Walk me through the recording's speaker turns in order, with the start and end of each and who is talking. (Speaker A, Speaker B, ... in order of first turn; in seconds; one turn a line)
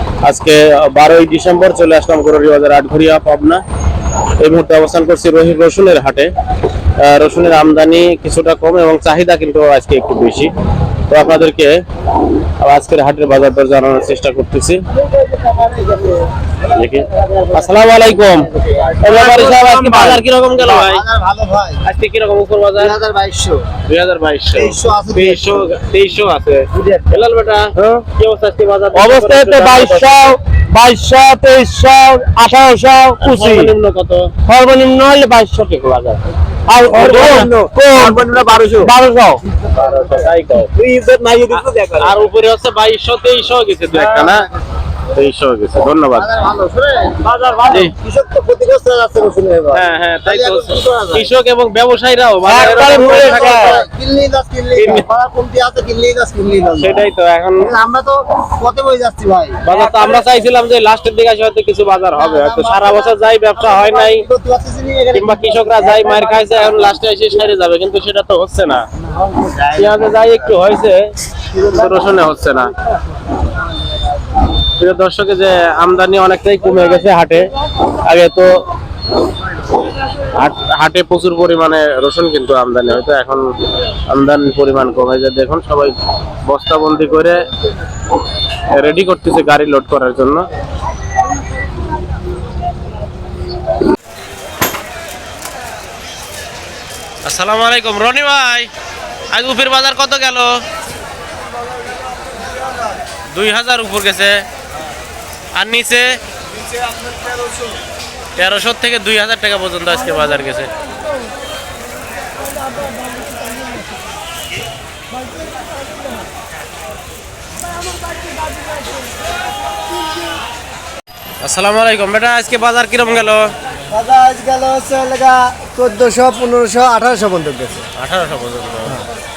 Speaker A: 0.2-3.6
Speaker A: 4.4-6.3
Speaker A: 7.0-10.5
Speaker A: 11.1-11.7
Speaker A: 12.6-14.8
Speaker B: 15.1-16.3
Speaker A: 16.7-21.0
Speaker B: 17.1-17.5
Speaker C: 19.0-20.2
Speaker B: 20.6-21.8
Speaker A: 21.8-22.9
Speaker B: 22.8-23.6
Speaker A: 23.9-30.3
Speaker B: 24.5-25.5
Speaker B: 26.8-27.1
Speaker C: 28.9-33.7
Speaker A: 33.2-34.3
Speaker C: 34.4-36.1
Speaker A: 35.8-36.1
Speaker C: 36.7-39.4
Speaker A: 36.9-38.9
Speaker A: 39.7-40.8
Speaker C: 40.8-41.7
Speaker A: 41.5-44.5
Speaker C: 43.9-44.3
Speaker A: 45.1-46.3
Speaker B: 46.1-51.3
Speaker C: 47.3-47.9
Speaker A: 47.7-47.9
Speaker A: 49.7-53.8
Speaker C: 52.4-53.8
Speaker B: 52.7-57.0
Speaker A: 54.7-55.0
Speaker A: 56.8-57.7
Speaker B: 57.6-59.6
Speaker A: 59.6-64.2
Speaker B: 62.1-66.7
Speaker A: 65.1-68.8
Speaker B: 69.2-70.0
Speaker A: 69.7-72.7
Speaker A: 74.8-77.5
Speaker A: 78.0-78.6
Speaker A: 80.3-83.5
Speaker A: 84.1-87.4
Speaker A: 88.7-90.4
Speaker A: 97.2-98.7
Speaker A: 99.3-100.6
Speaker A: 103.3-104.4
Speaker A: 105.5-106.2
Speaker A: 108.4-110.7
Speaker A: 121.4-123.5
Speaker B: 123.9-127.8
Speaker A: 128.0-129.0